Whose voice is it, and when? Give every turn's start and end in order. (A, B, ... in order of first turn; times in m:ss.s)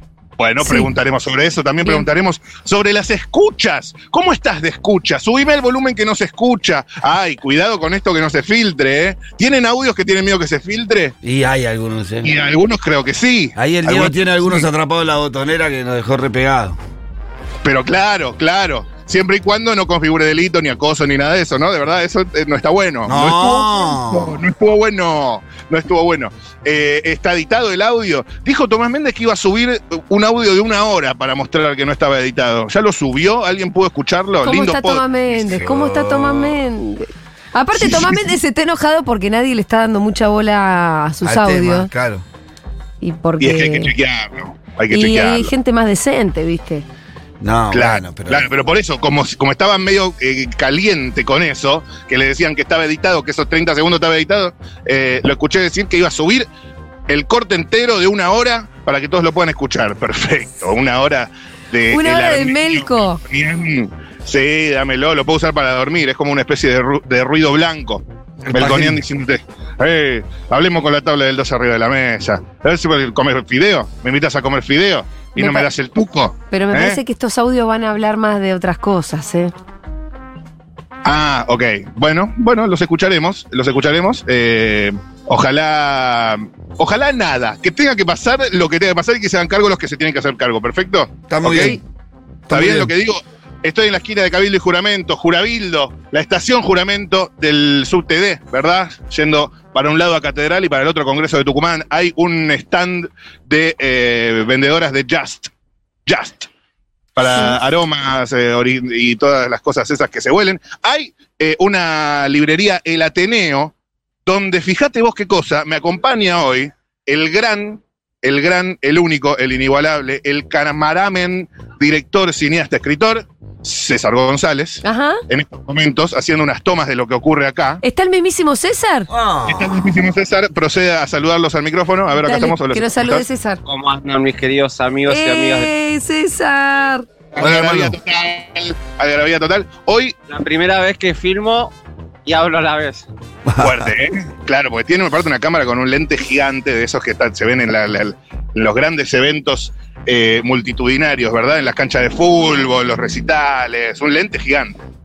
0:00.4-0:11.2 A
0:00.6-0:00.9 B
0:11.2-0:12.3 C
0:12.2-0:14.7 A
0:13.6-0:16.8 C
0:17.6-0:35.5 A
0:23.0-0:24.4 C
0:34.4-0:41.9 B
0:35.5-0:36.6 C
0:37.7-0:38.3 A
0:41.2-0:42.2 C
0:43.0-0:43.9 B
0:43.4-0:45.5 A
0:44.9-0:46.8 B
0:47.4-0:48.5 C
0:47.7-0:56.5 A
0:57.1-1:17.0 A
1:01.9-1:03.2 B
1:08.4-1:09.0 C
1:15.4-1:15.7 B
1:16.5-1:19.5 B
1:21.0-1:31.8 A
1:31.3-1:31.8 C
1:32.5-1:32.9 C
1:32.5-1:45.5 A
1:46.1-1:46.5 A
1:47.2-1:53.7 A
1:47.2-1:47.6 B
1:54.3-2:07.8 A
2:04.8-2:05.2 B
2:07.8-2:09.1 B
2:09.1-2:09.8 C
2:09.5-2:13.2 A
2:12.2-2:13.6 B
2:13.7-2:15.7 D
2:15.1-2:17.1 B
2:17.4-2:20.2 A
2:17.4-2:18.0 C
2:20.3-2:21.7 D
2:22.3-2:23.1 D
2:23.5-2:23.9 C
2:23.6-2:34.8 A